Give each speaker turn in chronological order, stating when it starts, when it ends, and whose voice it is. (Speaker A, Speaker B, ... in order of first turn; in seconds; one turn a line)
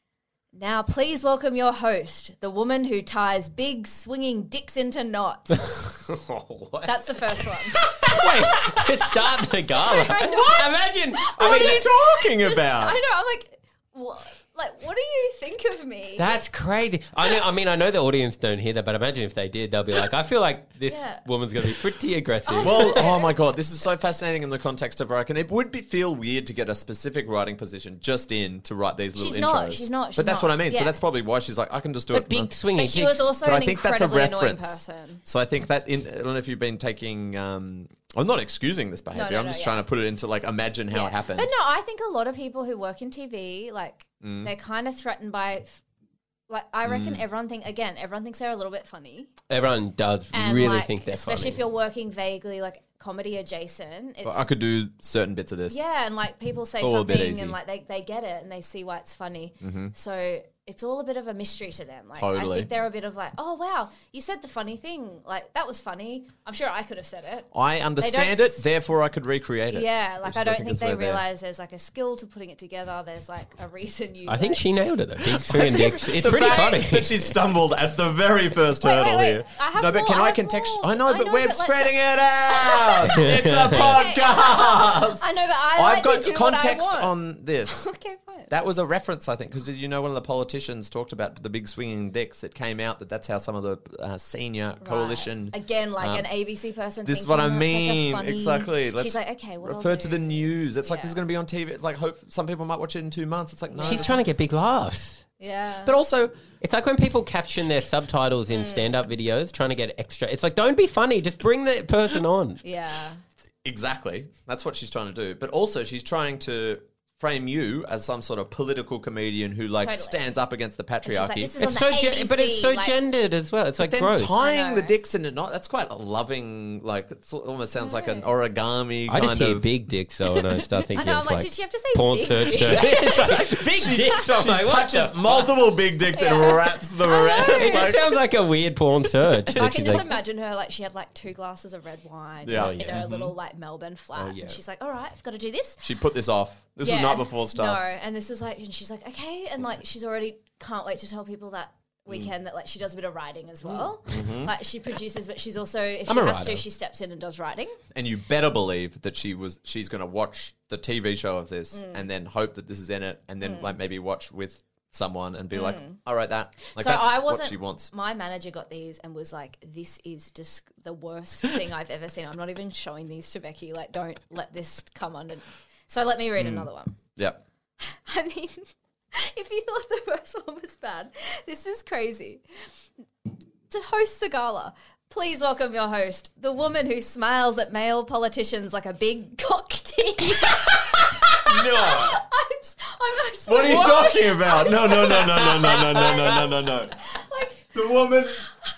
Speaker A: 0.5-5.8
Speaker B: 5.8-7.1
Speaker A: 6.8-16.3
Speaker B: 7.7-11.8
Speaker C: 7.9-9.0
Speaker C: 10.3-10.6
Speaker C: 11.3-13.0
Speaker B: 16.2-23.1
Speaker A: 20.9-21.2
Speaker A: 22.4-23.3
Speaker C: 22.6-32.5
Speaker A: 29.1-31.0
Speaker B: 32.1-33.2
Speaker A: 32.8-35.2
Speaker C: 33.4-41.5
Speaker A: 39.1-39.8
Speaker A: 40.9-45.8
Speaker C: 44.2-44.5
Speaker A: 46.5-49.3
Speaker C: 46.9-47.2
Speaker B: 49.5-51.6
Speaker A: 50.3-54.5
Speaker C: 54.2-55.8
Speaker A: 55.7-68.7
Speaker C: 56.8-57.5
Speaker C: 59.6-59.9
Speaker C: 62.1-62.7
Speaker C: 67.5-71.2
Speaker A: 69.7-74.6
Speaker B: 74.3-77.3
Speaker C: 75.3-87.8
Speaker A: 75.5-76.8
Speaker A: 78.8-87.1
Speaker B: 83.1-83.9
Speaker A: 87.7-88.5
Speaker C: 88.5-96.3
Speaker A: 94.8-101.2
Speaker C: 97.0-104.2
Speaker A: 103.7-104.2
Speaker B: 103.8-105.2
Speaker A: 105.4-105.9
Speaker C: 105.8-106.4
Speaker B: 106.6-112.6
Speaker A: 108.5-109.0
Speaker A: 112.6-113.2
Speaker C: 113.6-121.5
Speaker A: 119.8-120.2
Speaker A: 121.0-123.0
Speaker B: 121.6-124.4
Speaker C: 123.8-129.7
Speaker A: 124.4-124.9
Speaker A: 127.8-128.3
Speaker B: 129.1-135.5
Speaker A: 130.9-134.3
Speaker C: 132.4-138.2
Speaker A: 136.1-138.0
Speaker B: 137.4-140.1
Speaker C: 139.4-140.0
Speaker A: 139.5-145.9
Speaker C: 142.4-143.3
Speaker B: 142.5-143.1
Speaker B: 144.2-144.6
Speaker C: 145.8-147.8
Speaker A: 146.8-157.8
Speaker C: 153.7-154.5
Speaker B: 156.1-156.6
Speaker C: 157.9-167.9
Speaker A: 161.7-162.1
Speaker A: 163.4-163.7
Speaker A: 165.5-166.0
Speaker A: 166.6-177.0
Speaker C: 176.4-177.4
Speaker A: 177.8-182.4
Speaker A: 183.7-197.7
Speaker C: 191.4-192.0
Speaker B: 191.6-192.1
Speaker C: 193.4-196.9
Speaker B: 193.6-194.2
Speaker B: 195.0-196.4
Speaker C: 197.7-198.4